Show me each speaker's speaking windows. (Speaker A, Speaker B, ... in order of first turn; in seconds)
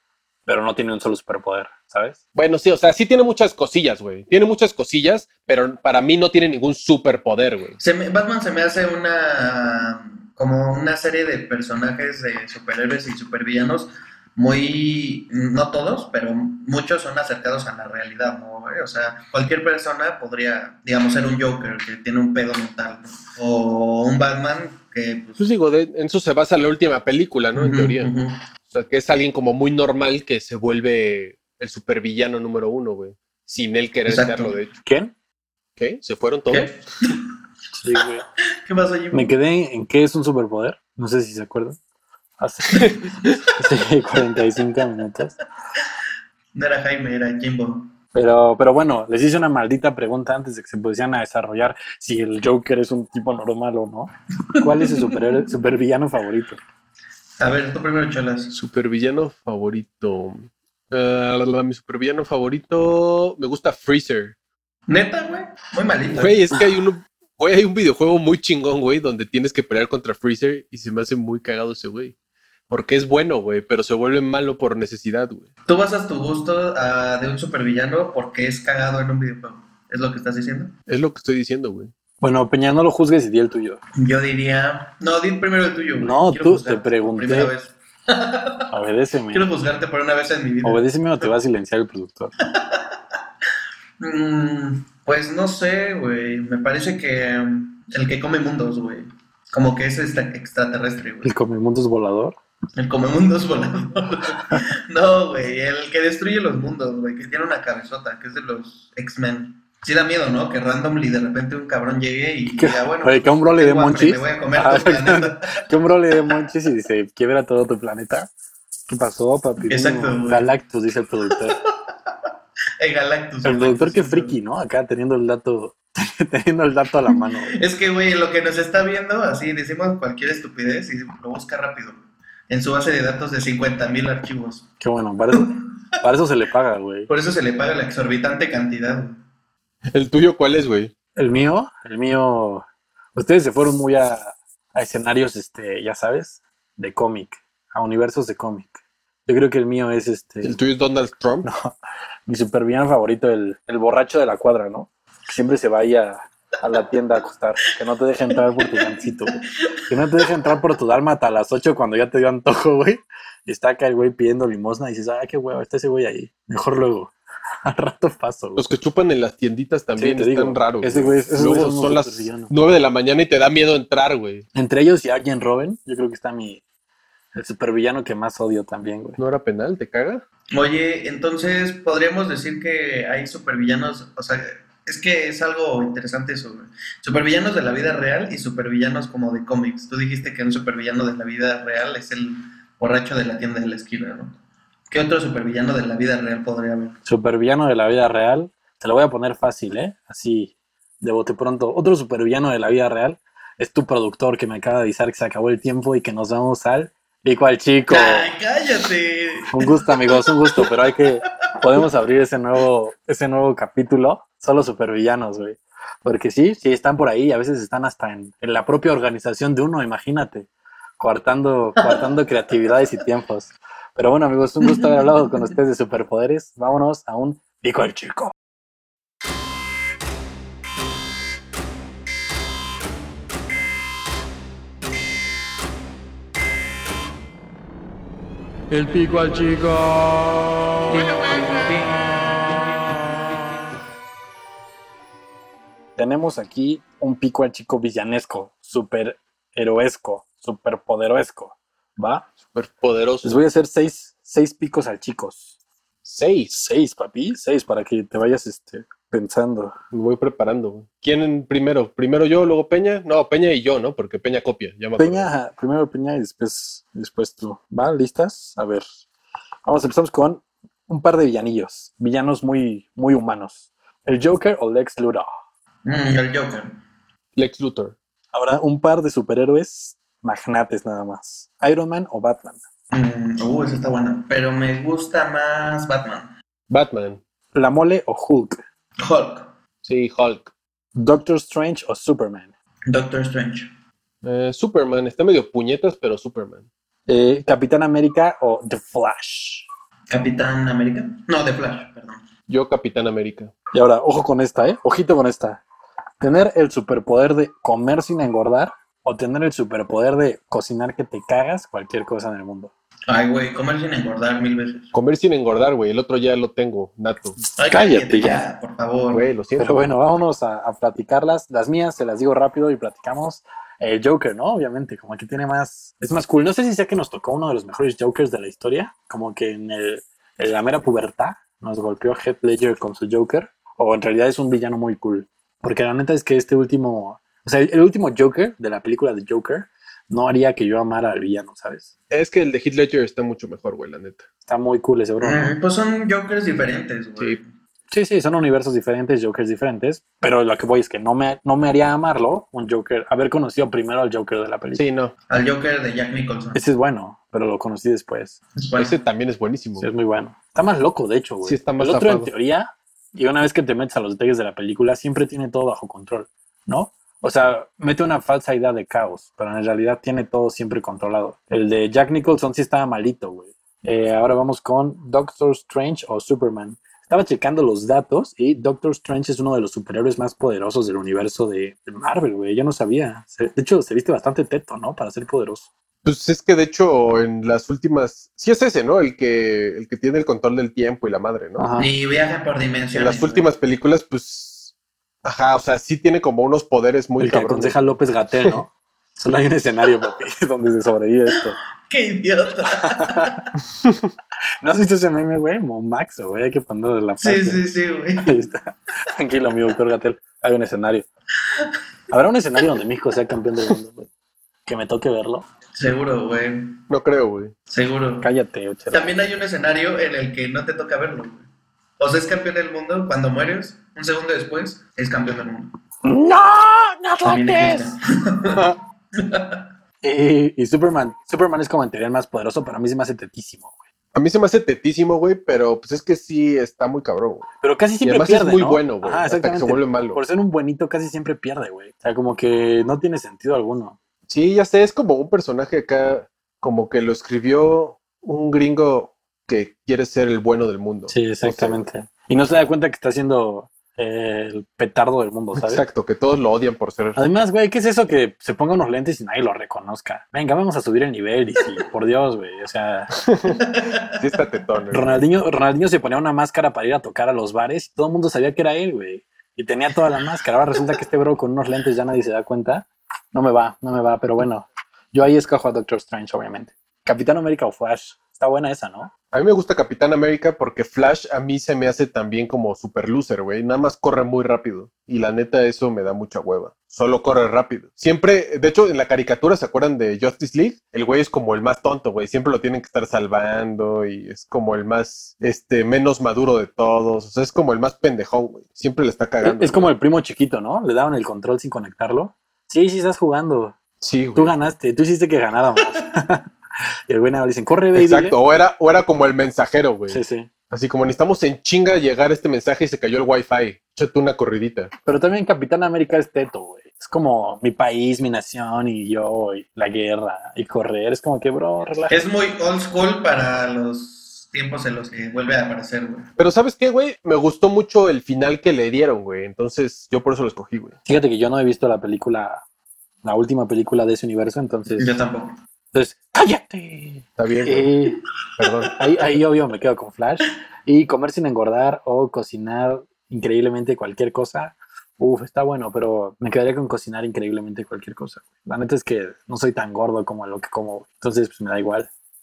Speaker A: 0.5-2.2, 34.8-35.1, 37.7-38.2, 39.1-41.8, 42.4-45.4, 48.1-56.6, 82.2-83.8, 86.0-87.5, 88.7-89.5, 90.6-92.3, 101.2-102.4, 112.6-118.3, 118.9-121.6, 123.4-127.6, 134.8-137.1, 141.2-150.6, 151.4-151.7, 152.3-167.1, 167.7-168.6, 170.0-172.5, 174.5-176.6, 177.3-179.2, 197.1-208.3, 209.5-228.3, 238.7-240.0, 246.0-252.3, 253.2-255.5, 256.5-259.8, 265.0-268.9, 269.6-275.3, 278.3-282.6, 287.5-288.6, 290.9-292.5, 297.1-299.6, 303.7-305.6, 306.2-312.7, 317.7-318.4, 319.6-341.9, 344.4-345.5, 347.9-354.8, 356.5-358.4, 359.8-385.7, 391.6-391.9, 397.2-401.6, 402.8-403.4, 404.6-407.6, 408.2-411.1, 412.1-414.1, 414.6-415.4, 418.2-419.1, 426.0-428.0, 430.0-433.7, 437.6-444.0, 451.1-455.8, 457.1-463.1, 464.9-479.1, 499.4-503.8, 504.4-506.5, 507.1-508.4, 510.1-510.5, 515.0-522.2, 531.0-532.6, 533.2-535.2, 535.9-538.2, 539.0-552.1
Speaker B: 2.4-7.8, 25.4-28.1, 28.7-34.7, 35.8-36.7, 58.5-64.3, 66.1-72.1, 72.7-75.5, 80.9-81.9, 139.9-140.9, 150.4-151.5, 168.6-174.4, 179.2-180.2, 252.5-253.4, 256.0-256.5, 259.9-265.3, 277.4-277.9, 286.7-287.2, 289.8-290.5, 294.2-296.6, 302.5-303.5, 314.9-317.4, 319.1-319.9, 342.1-344.3, 354.7-355.1, 358.8-359.9, 361.4-362.3, 386.0-391.6, 392.9-394.7, 395.2-397.8, 416.9-417.5, 434.1-437.4, 438.0-440.2, 444.3-451.8, 455.6-457.2, 463.2-463.6, 464.1-465.2, 479.3-499.9, 504.0-504.5, 507.9-514.9, 526.4-531.0, 537.4-537.9, 538.6-538.9
Speaker C: 7.8-25.4, 27.5-28.4, 34.1-34.6, 36.5-37.2, 38.6-39.3, 42.7-43.0, 46.5-47.9, 54.6-55.0, 57.4-58.5, 64.9-66.4, 75.7-80.7, 84.0-88.7, 89.3-91.3, 92.5-92.9, 94.0-101.3, 102.8-115.6, 119.7-120.5, 122.8-124.4, 127.5-134.7, 135.4-135.6, 137.1-139.2, 158.6-160.3, 180.5-194.4, 194.9-197.0, 207.9-210.7, 275.9-276.8, 282.9-286.3, 289.0-289.5, 292.9-293.7, 300.1-302.2, 313.1-314.9, 317.6-319.3, 345.2-347.5, 355.3-356.6, 358.6-359.0, 391.8-393.4, 401.8-403.4, 407.2-408.4, 415.7-416.8, 417.7-418.3, 418.9-421.4, 422.0-425.7, 427.2-429.6, 463.6-464.1, 522.1-526.3, 535.0-535.6